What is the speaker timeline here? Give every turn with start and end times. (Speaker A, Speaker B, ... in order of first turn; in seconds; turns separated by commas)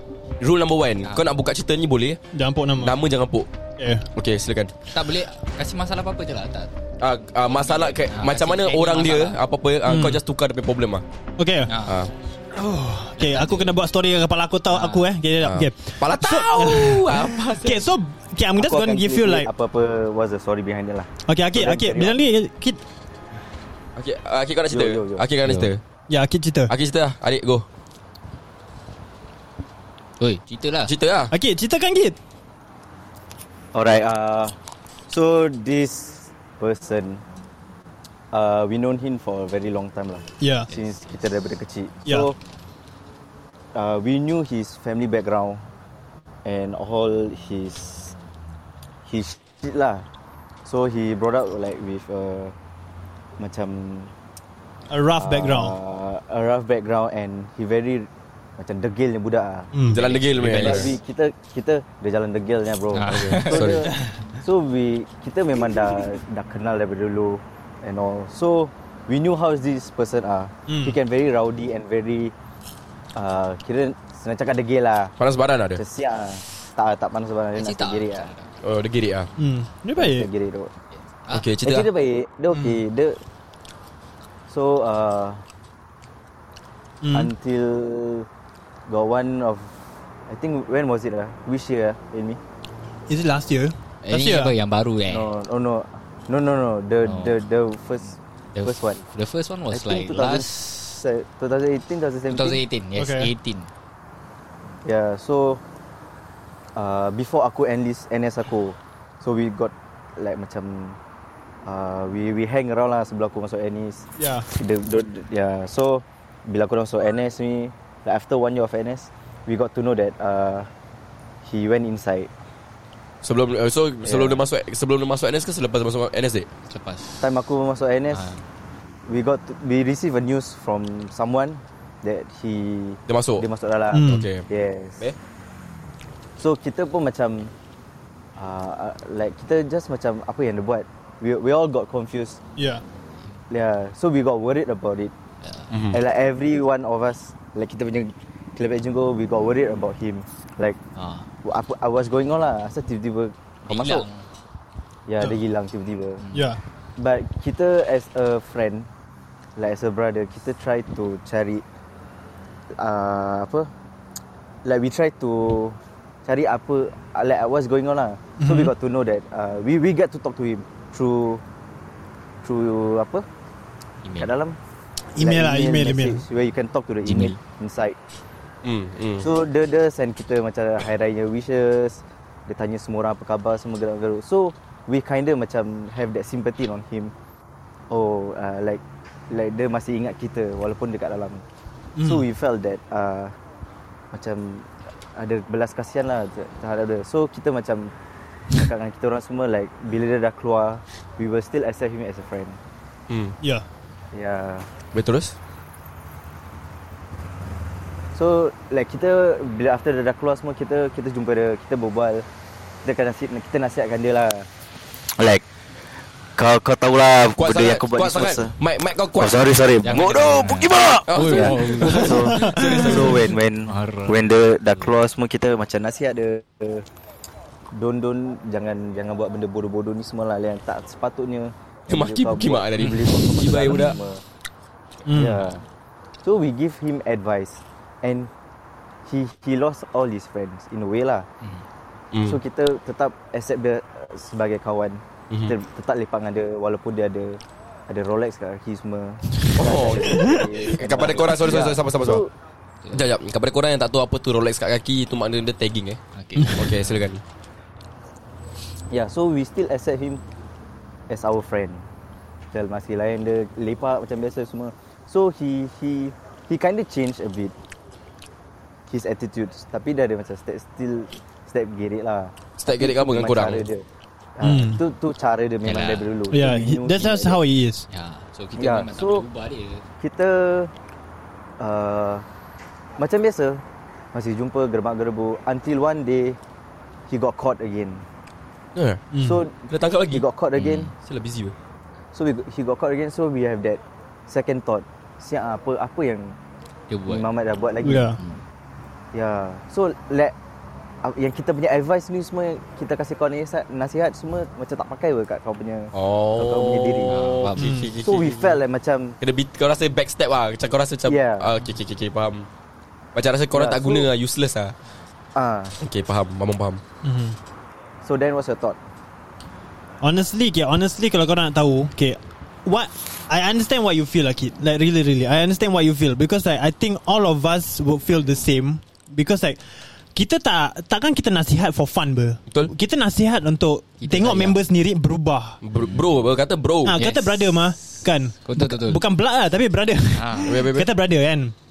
Speaker A: 0.4-2.2, Speaker B: 1.0-1.3, Speaker C: 2.3-3.0, Speaker A: 2.8-3.5, Speaker C: 3.8-4.1, Speaker A: 4.1-4.7, Speaker B: 4.9-6.7, Speaker A: 7.0-11.0, Speaker B: 7.5-9.4, Speaker C: 9.9-10.2, Speaker C: 11.4-11.7, Speaker B: 11.7-12.0, Speaker A: 11.8-12.1, Speaker C: 12.5-19.5, Speaker B: 13.2-13.7, Speaker B: 14.7-15.1, Speaker A: 15.4-17.9, Speaker D: 18.6-22.2, Speaker C: 21.3-22.8, Speaker A: 24.0-25.8, Speaker D: 24.7-25.3, Speaker B: 25.4-25.7, Speaker C: 26.1-26.7, Speaker A: 26.7-27.6, Speaker B: 30.2-30.9, Speaker A: 30.9-31.3, Speaker C: 31.3-32.2, Speaker D: 33.7-34.5, Speaker D: 35.1-37.2, Speaker D: 38.3-42.4, Speaker C: 40.4-40.7, Speaker D: 43.8-45.6, Speaker D: 46.5-48.1, Speaker D: 49.1-50.0, Speaker D: 50.7-52.5, Speaker D: 53.4-54.1, Speaker C: 54.9-55.7, Speaker D: 55.2-72.3, Speaker C: 59.7-60.0, Speaker A: 59.9-61.0, Speaker B: 60.0-61.0, Speaker B: 62.9-63.8, Speaker A: 63.1-63.9, Speaker C: 63.9-64.2, Speaker C: 70.7-71.0, Speaker D: 73.2-75.1, Speaker A: 75.2-75.8, Speaker D: 75.8-78.3, Speaker B: 77.6-78.5, Speaker A: 78.6-79.3, Speaker C: 79.4-80.3, Speaker D: 80.0-80.7, Speaker B: 80.9-81.5, Speaker A: 81.3-81.9, Speaker D: 81.6-83.2, Speaker C: 82.5-82.8, Speaker D: 84.5-85.4, Speaker C: 87.0-87.3, Speaker D: 87.1-88.3, Speaker D: 88.9-89.8, Speaker D: 90.3-92.4, Speaker C: 93.1-94.5, Speaker B: 94.0-95.3, Speaker D: 95.1-99.0, Speaker B: 97.0-97.4, Speaker B: 98.5-100.8, Speaker D: 99.7-102.6, Speaker B: 102.3-103.7, Speaker C: 103.0-103.3, Speaker D: 104.8-105.6, Speaker D: 106.8-111.0, Speaker D: 111.7-120.7, Speaker C: 114.2-114.5, Speaker D: 121.5-122.3, Speaker A: 123.2-126.5, Speaker D: 124.0-124.4, Speaker B: 126.7-127.2, Speaker D: 127.2-128.3, Speaker B: 128.1-128.4, Speaker D: 129.1-135.0, Speaker A: 133.1-133.5, Speaker C: 133.9-134.3, Speaker A: 134.0-134.5, Speaker D: 136.4-137.5, Speaker D: 138.4-142.4, Speaker C: 142.6-142.8, Speaker D: 143.5-145.1, Speaker B: 145.4-145.7, Speaker A: 145.7-146.0, Speaker D: 145.9-150.8, Speaker B: 151.0-151.3, Speaker D: 151.4-154.1, Speaker B: 153.7-154.3, Speaker D: 155.1-156.2, Speaker B: 156.2-156.5, Speaker C: 156.3-156.6, Speaker D: 157.0-158.9, Speaker D: 159.6-161.6, Speaker D: 162.8-163.7, Speaker D: 164.7-171.4, Speaker C: 168.4-168.7, Speaker D: 172.4-173.2, Speaker B: 174.0-174.3, Speaker D: 174.2-174.6, Speaker C: 175.2-176.2, Speaker D: 175.2-178.0, Speaker B: 177.1-177.4, Speaker A: 178.6-179.3, Speaker D: 179.2-187.1, Speaker D: 187.9-191.4, Speaker C: 192.0-192.3, Speaker D: 192.0-193.3, Speaker D: 194.1-197.9, Speaker D: 198.5-202.6, Speaker A: 203.1-203.4, Speaker D: 204.1-204.7, Speaker A: 204.9-205.4, Speaker D: 208.2-212.2, Speaker D: 212.8-214.5, Speaker E: 216.4-218.5, Speaker A: 217.3-220.1, Speaker E: 219.2-225.0, Speaker B: 219.8-223.2, Speaker A: 221.1-223.3, Speaker D: 221.3-223.5, Speaker C: 222.2-223.0, Speaker B: 223.7-224.2, Speaker D: 224.7-226.8, Speaker D: 227.7-234.2, Speaker A: 231.9-234.0, Speaker B: 232.8-233.0, Speaker C: 235.1-235.4, Speaker D: 235.1-235.6, Speaker B: 235.1-235.6, Speaker D: 236.2-238.3, Speaker D: 239.1-241.3, Speaker A: 242.1-242.4, Speaker D: 242.2-252.3, Speaker A: 249.6-252.2, Speaker A: 252.9-256.0, Speaker B: 256.1-257.1, Speaker A: 256.5-257.2, Speaker D: 258.9-260.2, Speaker D: 261.1-261.9, Speaker D: 262.5-267.5, Speaker D: 268.9-273.9, Speaker A: 272.6-273.7, Speaker D: 274.4-277.4, Speaker C: 274.4-274.8, Speaker B: 275.6-276.1, Speaker C: 276.3-277.9, Speaker B: 277.9-279.9, Speaker D: 278.6-279.3, Speaker D: 280.0-280.7, Speaker D: 281.6-282.2, Speaker D: 283.0-283.6, Speaker D: 284.1-286.4, Speaker D: 287.1-288.1, Speaker A: 288.8-289.1, Speaker C: 289.1-289.4, Speaker D: 289.2-290.9, Speaker A: 289.7-290.2, Speaker B: 290.6-290.9, Speaker A: 290.9-291.6, Speaker D: 292.1-296.4, Speaker B: 296.9-297.3, Speaker D: 297.1-298.1, Speaker C: 297.8-298.2, Speaker D: 299.1-300.4, Speaker D: 301.0-307.2, Speaker A: 305.9-308.6, Speaker B: 307.1-307.8, Speaker C: 307.6-307.9, Speaker D: 308.0-309.2, Speaker A: 309.2-312.5, Speaker D: 311.1-311.5, Speaker A: 313.1-314.7, Speaker D: 313.5-314.1, Speaker D: 315.4-315.8, Speaker A: 315.8-316.8, Speaker C: 317.0-317.4, Speaker D: 318.0-318.8, Speaker C: 320.0-329.6, Speaker C: 330.1-335.6, Speaker B: 334.0-334.6, Speaker A: 335.6-337.0, Speaker B: 335.8-336.1, Speaker C: 336.9-341.5, Speaker B: 336.9-339.0, Speaker B: 340.1-340.6, Speaker A: 340.4-340.9